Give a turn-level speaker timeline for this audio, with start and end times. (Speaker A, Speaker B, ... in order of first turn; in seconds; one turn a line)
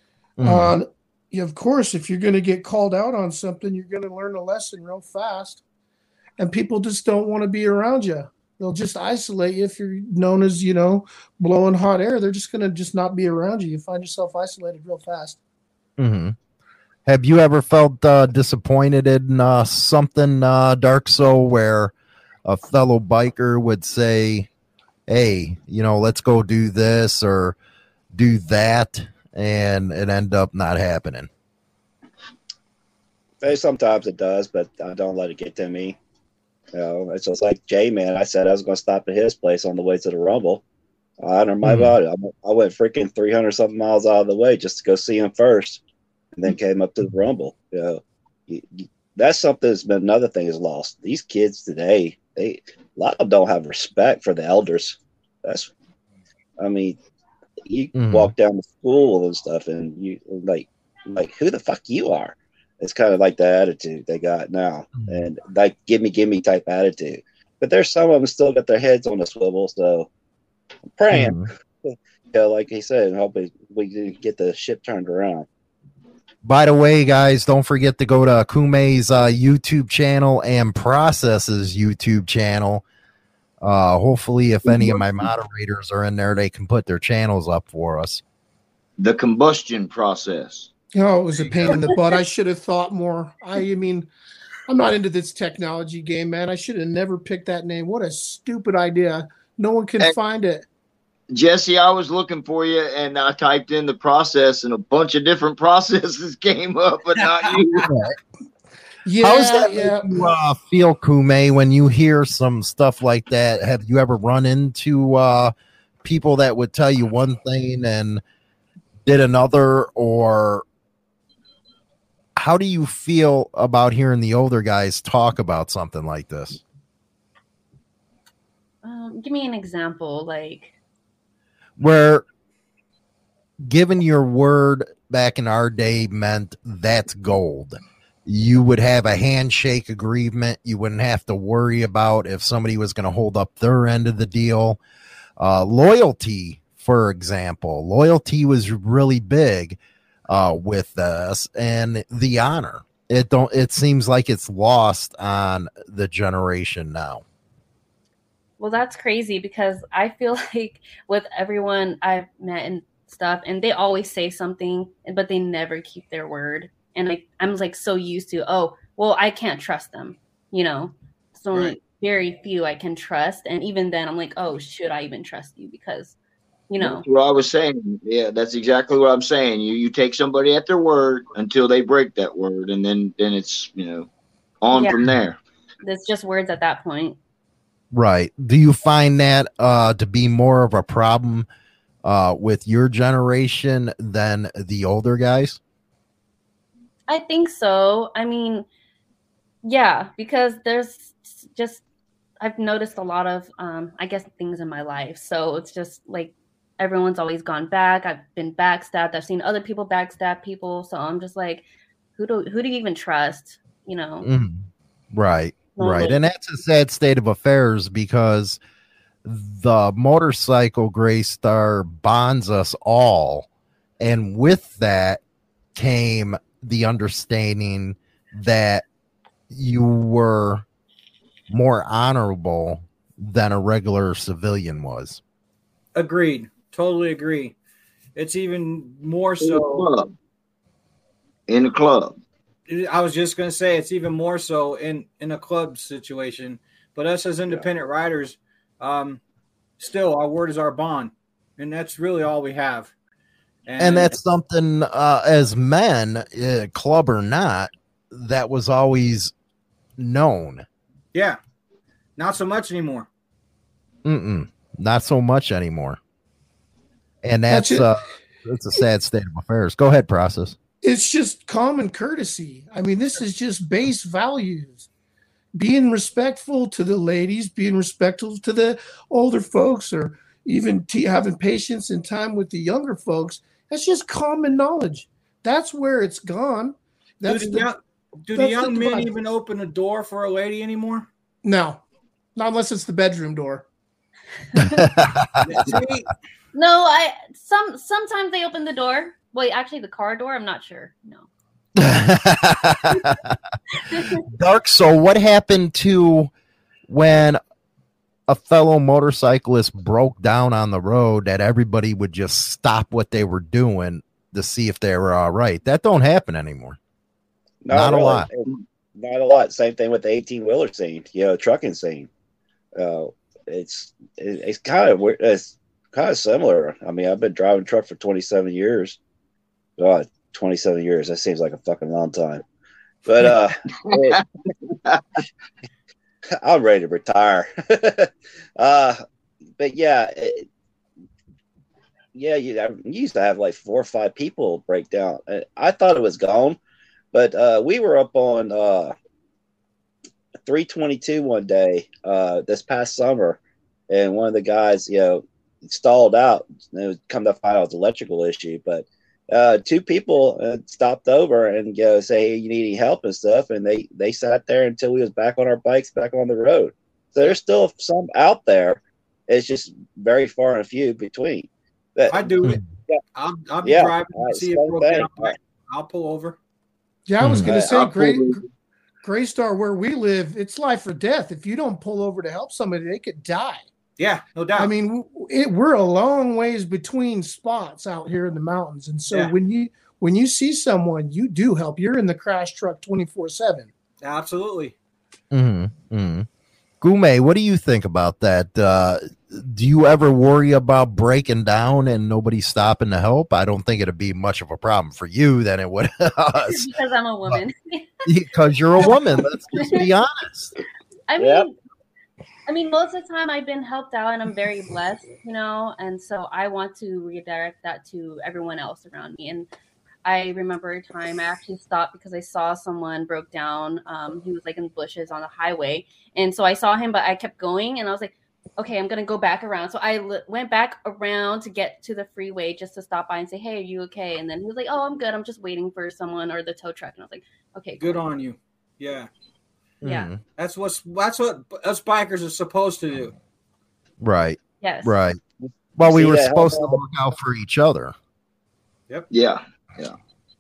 Speaker A: 0.4-0.8
Speaker B: 0.4-5.6
Speaker B: 6.4-15.4
Speaker A: 16.0-16.4
Speaker A: 17.1-21.9
Speaker A: 22.4-24.5
Speaker A: 25.1-27.6
Speaker A: 28.1-31.3
Speaker C: 33.4-36.0
Speaker C: 36.7-40.6
Speaker C: 41.2-45.8
Speaker A: 41.6-42.0
Speaker C: 46.4-55.7
Speaker C: 56.6-57.0
Speaker C: 57.7-70.1
Speaker A: 58.0-58.3
Speaker A: 65.0-65.3
Speaker C: 71.0-75.5
Speaker A: 71.1-71.5
Speaker A: 76.4-82.8
Speaker A: 83.6-88.2
Speaker D: 84.7-85.1
Speaker D: 89.0-90.7
Speaker B: 90.9-94.1
Speaker E: 91.4-92.0
Speaker B: 94.7-100.7
Speaker D: 101.3-107.9
Speaker A: 107.9-108.2
Speaker B: 109.0-110.2
Speaker A: 109.2-118.2
Speaker A: 119.0-120.6
Speaker A: 122.4-126.6
Speaker F: 128.8-130.7
Speaker A: 131.8-132.2
Speaker A: 133.6-144.8
Speaker A: 145.4-157.2
Speaker F: 158.6-176.2
Speaker F: 176.7-177.1
Speaker D: 176.8-184.1
Speaker D: 184.6-185.4
Speaker F: 184.7-185.1
Speaker F: 185.8-187.2
Speaker A: 187.9-191.5
Speaker A: 192.0-195.6
Speaker F: 197.1-198.7
Speaker F: 199.6-201.8
Speaker F: 202.4-211.7
Speaker F: 212.2-214.3
Speaker A: 214.2-218.6
Speaker F: 215.8-216.2
Speaker A: 219.2-223.5
Speaker A: 224.0-225.2
Speaker A: 225.8-228.8
Speaker A: 229.5-230.7
Speaker A: 231.5-235.2
Speaker E: 235.9-237.6
Speaker E: 238.2-239.9
Speaker D: 239.4-240.1
Speaker D: 241.5-242.2
Speaker E: 242.7-249.2
Speaker E: 249.8-252.9
Speaker E: 253.7-254.2
Speaker A: 253.8-259.3
Speaker A: 260.0-260.6
Speaker E: 262.2-263.1
Speaker A: 264.1-266.0
Speaker A: 267.2-270.6
Speaker B: 267.5-267.9
Speaker B: 270.8-274.9
Speaker B: 275.5-287.7
Speaker E: 287.3-291.1
Speaker B: 288.3-289.1
Speaker B: 291.4-291.8
Speaker B: 292.4-293.7
Speaker A: 294.6-295.8
Speaker E: 295.4-296.1
Speaker F: 296.5-301.3
Speaker A: 301.8-303.4
Speaker F: 303.7-304.2
Speaker A: 304.3-306.3
Speaker A: 306.9-307.4
Speaker A: 308.3-316.8
Speaker C: 317.6-322.1
Speaker A: 317.7-318.3
Speaker C: 322.8-329.0
Speaker C: 329.8-332.4
Speaker C: 333.1-334.2
Speaker D: 333.8-335.0
Speaker C: 336.4-339.0
Speaker C: 339.6-340.4
Speaker C: 342.1-346.6
Speaker C: 347.1-348.9
Speaker C: 350.5-353.4
Speaker C: 353.9-372.3
Speaker E: 372.1-372.6
Speaker A: 372.4-372.7
Speaker E: 373.2-376.4
Speaker C: 373.6-375.3
Speaker B: 377.1-378.4
Speaker A: 377.2-377.5
Speaker C: 377.4-378.3
Speaker B: 379.0-383.6
Speaker E: 384.0-384.7
Speaker B: 384.6-393.7
Speaker E: 389.1-389.4
Speaker E: 394.0-394.7
Speaker A: 395.3-396.3
Speaker A: 396.8-406.7
Speaker F: 406.5-408.0
Speaker A: 408.1-410.5
Speaker F: 409.5-409.9
Speaker F: 411.1-411.5
Speaker C: 411.2-411.5
Speaker F: 412.5-419.5
Speaker F: 420.1-438.0
Speaker E: 437.8-439.1
Speaker A: 439.8-440.2
Speaker F: 439.8-440.1
Speaker E: 440.4-443.1
Speaker A: 444.0-445.2
Speaker F: 444.6-444.9
Speaker C: 445.4-446.8
Speaker A: 445.8-447.9
Speaker D: 449.1-450.0